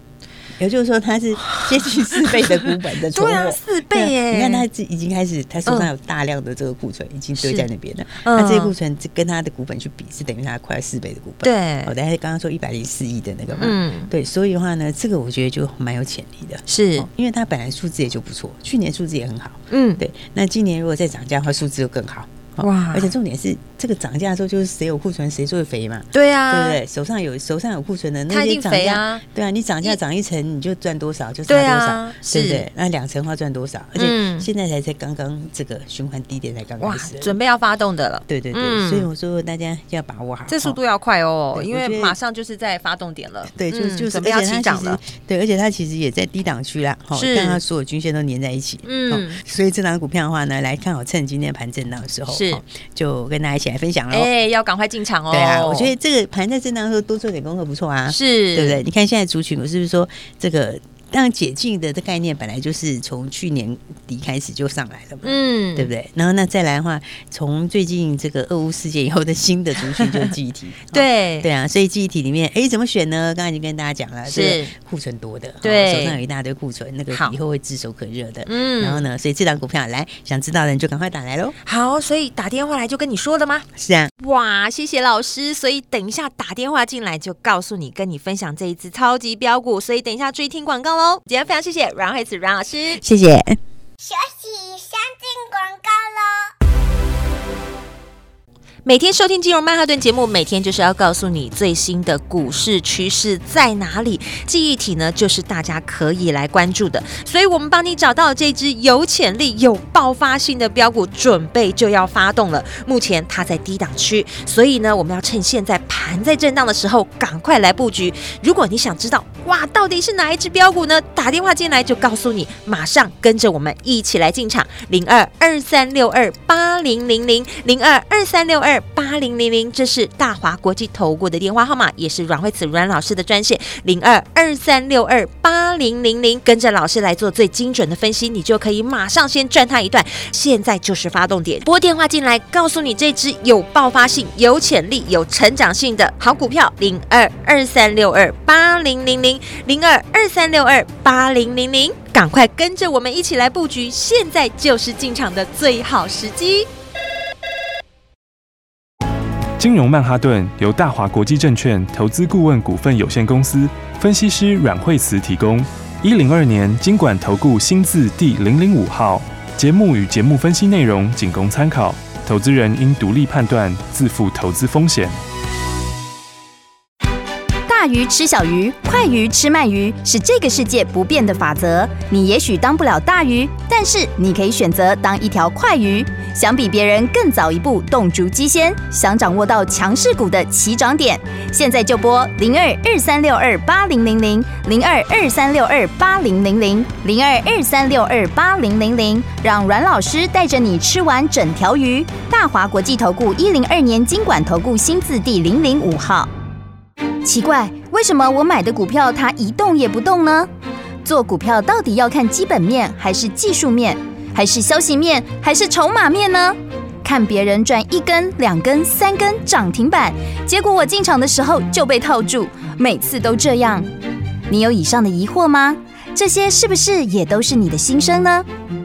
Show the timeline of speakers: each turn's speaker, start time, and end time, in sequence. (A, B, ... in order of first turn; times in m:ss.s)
0:00.6-0:37.3 A
0:01.5-0:04.6 B
0:07.4-0:07.7 B
0:08.2-0:08.7 B
0:11.4-0:11.9 B
0:13.5-0:14.1 B
0:16.7-0:17.1 B
0:19.7-0:20.0 B
0:22.6-0:23.1 B
0:26.1-0:26.8 B
0:28.3-0:29.2 B
0:31.5-0:32.6 B
0:34.0-0:34.5 B
0:36.8-0:39.1 B
0:38.3-0:40.8 A
0:40.5-0:45.0 B
0:41.5-0:42.2 A
0:43.5-0:54.3 A
0:47.1-0:47.6 B
0:48.8-0:49.4 B
0:52.3-0:52.6 B
0:54.1-0:55.9 B
0:55.3-1:21.6 A
0:58.1-0:58.8 B
1:05.2-1:05.9 B
1:10.9-1:11.5 B
1:14.3-1:14.7 B
1:15.6-1:16.2 B
1:17.1-1:17.4 B
1:18.5-1:19.0 B
1:21.6-1:23.7 B
1:23.7-1:24.1 A
1:24.2-1:33.1 B
1:33.0-1:33.6 A
1:34.0-1:36.5 C
1:38.8-2:36.7 B
2:39.6-2:55.1 D
2:57.7-3:26.3 E
3:27.2-3:30.5 E
3:31.0-3:43.9 E
3:44.5-3:48.5 E